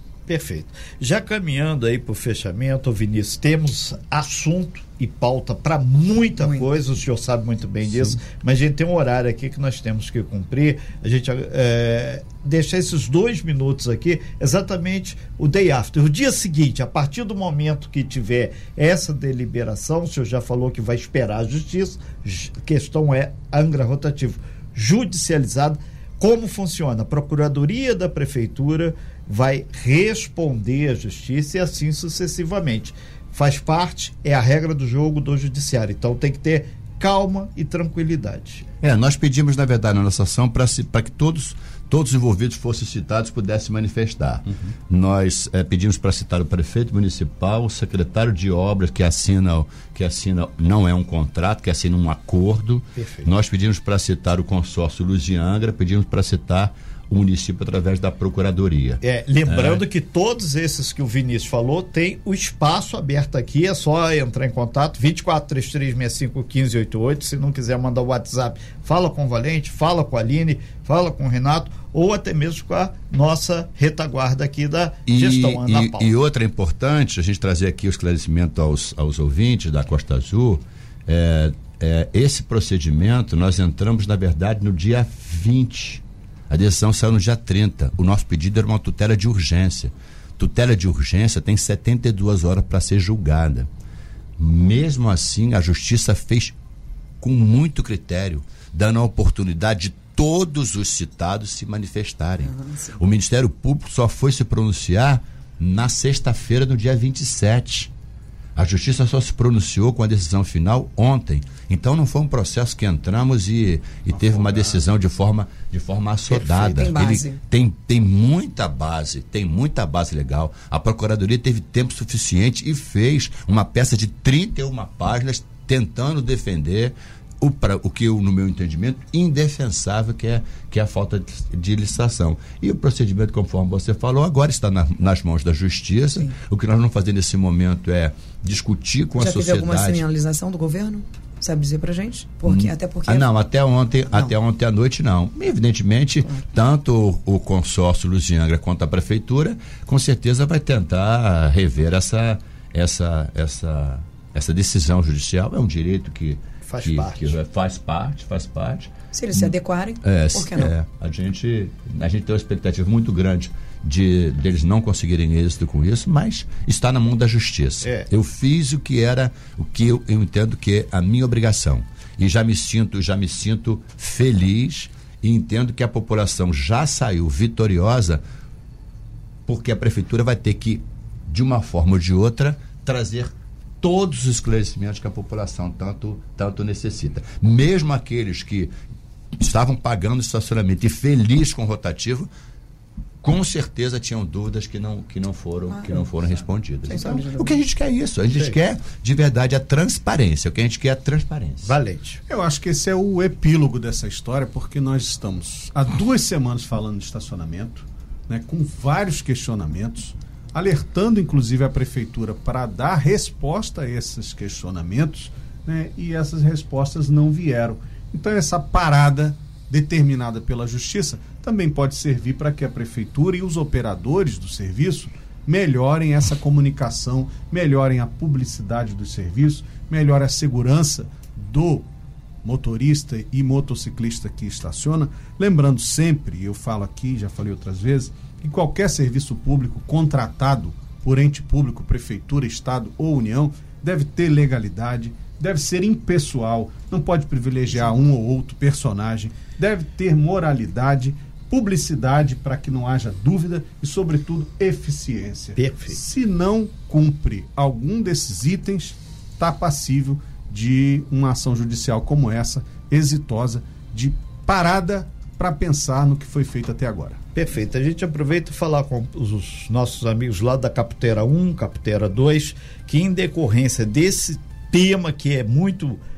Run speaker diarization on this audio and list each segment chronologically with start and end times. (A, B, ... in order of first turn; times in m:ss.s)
0:00.3-0:38.7 A
0:06.4-0:06.7 B
0:38.8-0:59.8 C
0:53.0-0:53.3 A
0:59.0-1:16.1 A
1:15.1-1:33.7 C
1:34.4-1:36.6 C
1:37.2-1:47.9 C
1:42.4-1:43.0 B
1:48.6-2:20.0 C
1:54.1-1:54.8 D
1:56.3-1:57.4 B
2:19.2-2:23.3 B
2:22.5-2:39.5 C
2:36.6-2:37.4 A
2:39.1-2:40.7 B
2:40.0-2:58.2 C
2:47.8-2:48.1 A
2:59.5-3:08.7 C
3:09.4-3:12.3 C
3:13.2-3:21.7 C
3:15.7-3:16.1 B
3:16.9-3:17.6 B
3:21.6-3:22.2 A
3:22.3-3:51.9 D
3:52.4-4:27.2 D
4:15.6-4:16.0 A
4:27.4-4:36.0 A